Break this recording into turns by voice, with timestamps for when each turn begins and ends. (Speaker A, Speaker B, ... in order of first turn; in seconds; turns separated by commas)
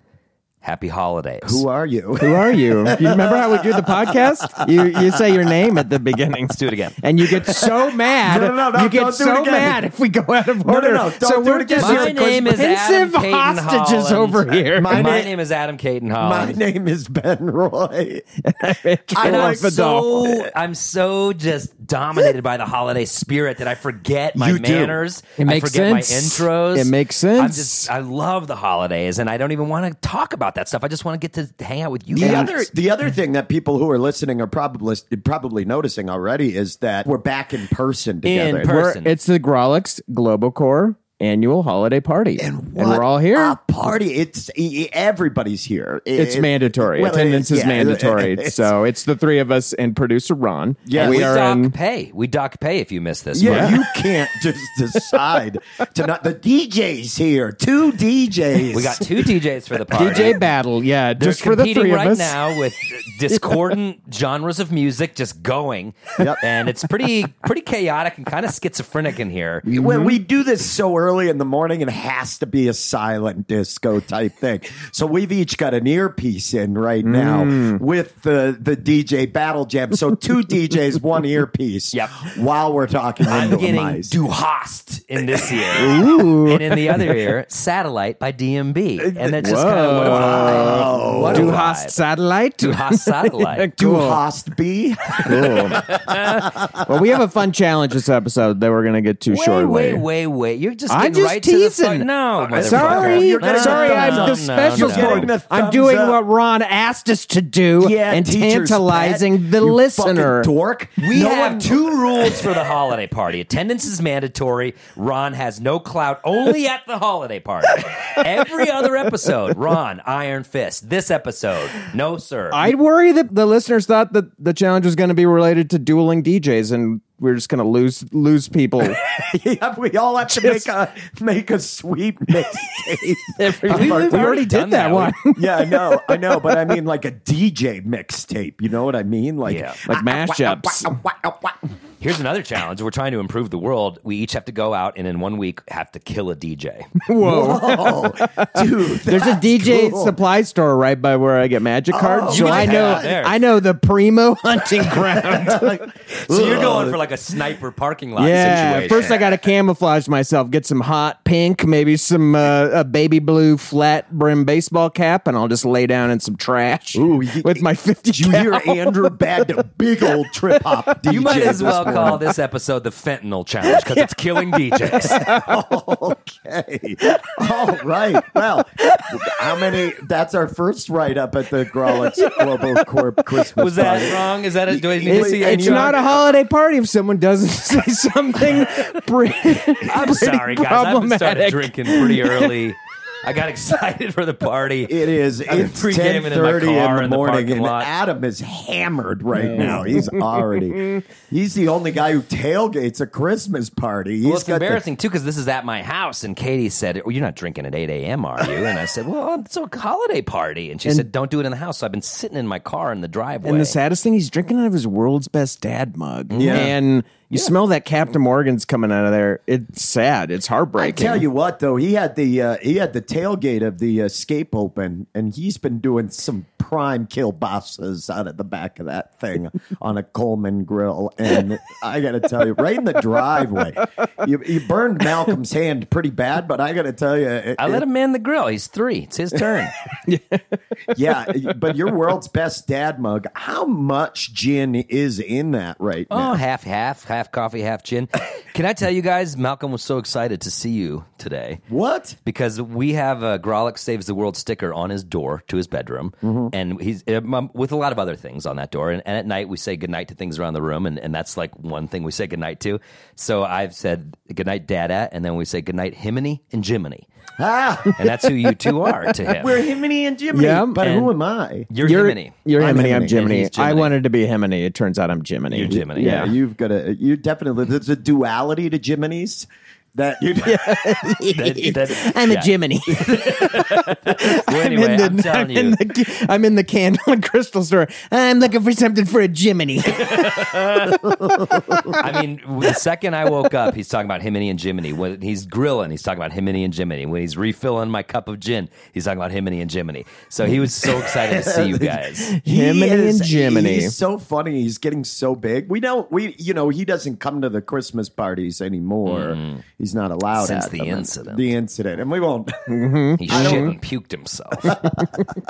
Speaker A: 0.6-1.6, Speaker B: 1.4-5.5, Speaker C: 2.2-15.1, Speaker A: 6.5-7.0, Speaker B: 7.3-9.8, Speaker B: 10.6-12.2, Speaker A: 11.8-16.6, Speaker B: 14.8-15.3, Speaker B: 16.2-18.3, Speaker C: 18.4-20.4, Speaker B: 19.1-20.5, Speaker A: 19.2-32.7, Speaker B: 24.4-25.0, Speaker C: 25.4-27.9, Speaker B: 32.1-38.7, Speaker C: 32.2-32.5, Speaker A: 38.2-39.1, Speaker C: 38.3-43.6, Speaker B: 42.4-48.7, Speaker C: 46.2-51.8, Speaker B: 50.9-51.3, Speaker A: 50.9-53.8, Speaker B: 53.3-59.2, Speaker C: 53.4-53.8, Speaker C: 54.9-55.3, Speaker A: 58.7-60.5, Speaker C: 59.9-62.4, Speaker A: 61.2-69.7, Speaker C: 63.3-63.6, Speaker C: 69.7-70.2, Speaker B: 69.7-84.2, Speaker C: 77.0-77.8, Speaker A: 81.9-82.3, Speaker A: 83.3-92.0, Speaker B: 85.3-85.7, Speaker C: 85.8-87.1, Speaker B: 89.0-91.6, Speaker C: 89.4-94.2, Speaker A: 92.6-93.7, Speaker B: 93.8-96.9, Speaker C: 95.2-95.9, Speaker A: 95.7-96.5, Speaker C: 96.8-100.0, Speaker A: 99.3-105.3, Speaker C: 100.9-110.5, Speaker B: 102.5-106.2, Speaker B: 107.8-112.7, Speaker A: 111.0-122.7, Speaker C: 122.5-129.0, Speaker B: 129.1-134.3, Speaker C: 130.3-130.7, Speaker C: 133.3-136.8, Speaker A: 133.7-135.2, Speaker B: 135.3-141.6, Speaker A: 139.5-139.8, Speaker C: 139.9-141.0, Speaker A: 142.0-146.9, Speaker C: 147.0-155.8, Speaker B: 147.2-150.2, Speaker B: 151.9-153.1, Speaker A: 152.3-153.4, Speaker B: 154.8-157.0, Speaker A: 156.2-159.2, Speaker C: 158.2-169.2, Speaker B: 158.8-159.2, Speaker B: 166.9-172.3, Speaker A: 171.0-175.2, Speaker C: 173.7-175.6, Speaker B: 175.0-186.1, Speaker C: 178.3-179.1, Speaker C: 181.9-183.0, Speaker A: 183.5-186.3, Speaker C: 185.0-192.5, Speaker A: 189.8-197.9, Speaker B: 194.9-204.8, Speaker C: 199.3-201.0, Speaker A: 204.2-213.8, Speaker C: 213.4-221.2, Speaker A: 216.3-216.7, Speaker B: 216.3-216.8, Speaker B: 220.8-237.8, Speaker A: 237.6-239.7, Speaker C: 240.1-240.6, Speaker B: 240.9-246.4, Speaker A: 246.1-251.6, Speaker B: 251.7-252.2, Speaker A: 252.2-267.1, Speaker B: 256.2-256.5, Speaker B: 267.4-268.1, Speaker A: 268.0-269.6, Speaker C: 268.9-269.2, Speaker B: 269.3-271.7, Speaker C: 270.3-270.9, Speaker A: 270.8-271.1, Speaker A: 271.7-272.4, Speaker C: 271.8-276.3, Speaker B: 272.6-273.2, Speaker A: 273.1-273.9, Speaker A: 275.5-276.3, Speaker B: 275.7-280.8, Speaker C: 280.4-290.7, Speaker A: 281.4-285.8, Speaker A: 290.0-291.0, Speaker B: 291.0-292.0, Speaker A: 291.9-302.4, Speaker B: 300.8-313.7, Speaker C: 302.3-304.0, Speaker A: 309.1-309.6, Speaker A: 310.4-311.5, Speaker C: 312.7-313.8, Speaker A: 313.2-314.8, Speaker B: 314.6-315.1, Speaker C: 315.0-315.3